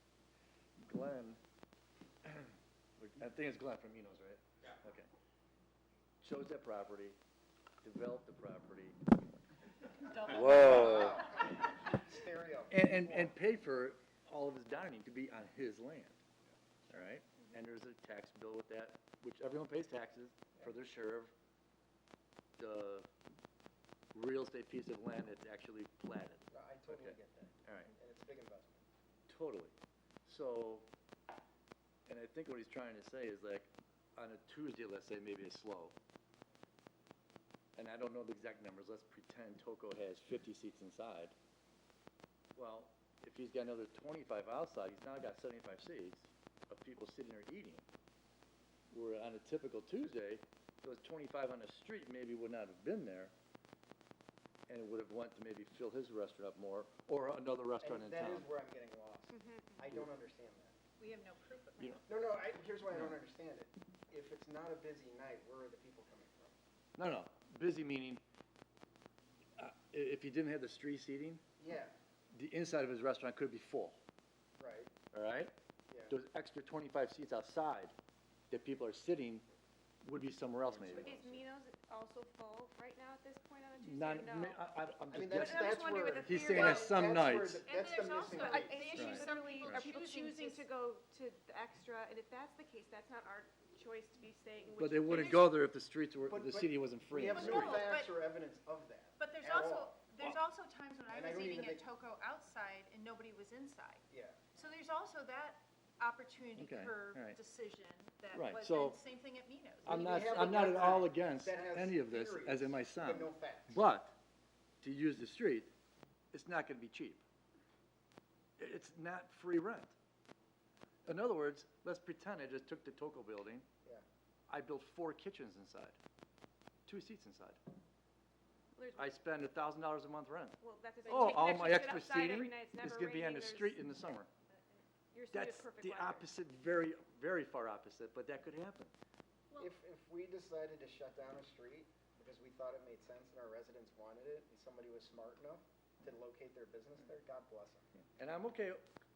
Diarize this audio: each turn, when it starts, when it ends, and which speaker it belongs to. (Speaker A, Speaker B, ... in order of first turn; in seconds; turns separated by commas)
Speaker A: 0.8-1.4, Speaker A: 2.2-5.1, Speaker A: 6.2-7.2, Speaker A: 7.8-9.4, Speaker A: 10.2-11.3, Speaker B: 10.2-13.3, Speaker A: 12.7-16.2, Speaker A: 16.9-21.3, Speaker A: 22.6-23.1, Speaker A: 24.1-27.9, Speaker B: 26.5-28.8, Speaker A: 29.3-29.7, Speaker A: 30.2-30.9, Speaker A: 32.1-35.9, Speaker A: 37.8-41.3, Speaker A: 42.6-47.8, Speaker A: 48.9-53.3, Speaker A: 54.7-58.5, Speaker B: 57.8-60.8, Speaker C: 59.3-59.7, Speaker D: 61.0-62.0, Speaker B: 62.1-66.5, Speaker A: 67.0-68.2, Speaker A: 69.6-71.4, Speaker B: 71.6-71.9, Speaker A: 72.3-74.0, Speaker B: 74.6-74.9, Speaker A: 75.1-75.5, Speaker B: 75.9-76.2, Speaker A: 76.1-77.9, Speaker A: 78.5-79.5, Speaker A: 80.0-81.2, Speaker B: 80.7-81.4, Speaker C: 80.9-84.6, Speaker A: 83.8-87.7, Speaker B: 85.1-88.9, Speaker C: 85.3-87.1, Speaker D: 87.2-90.7, Speaker C: 88.4-95.4, Speaker A: 88.9-89.9, Speaker A: 94.8-97.8, Speaker D: 95.1-95.4, Speaker B: 96.3-99.9, Speaker D: 97.3-98.1, Speaker D: 99.2-110.3, Speaker B: 101.1-101.8, Speaker B: 104.1-104.4, Speaker A: 106.6-107.4, Speaker A: 108.3-109.0, Speaker B: 109.8-113.8, Speaker A: 109.8-114.2, Speaker A: 114.8-115.7, Speaker A: 116.3-117.2, Speaker A: 118.6-119.9, Speaker A: 121.0-123.7, Speaker A: 124.5-126.0, Speaker A: 126.9-127.6, Speaker C: 128.7-129.2, Speaker A: 128.9-134.3, Speaker C: 130.6-134.0, Speaker C: 134.5-136.3, Speaker A: 135.3-138.9, Speaker B: 139.6-147.9, Speaker A: 148.2-148.8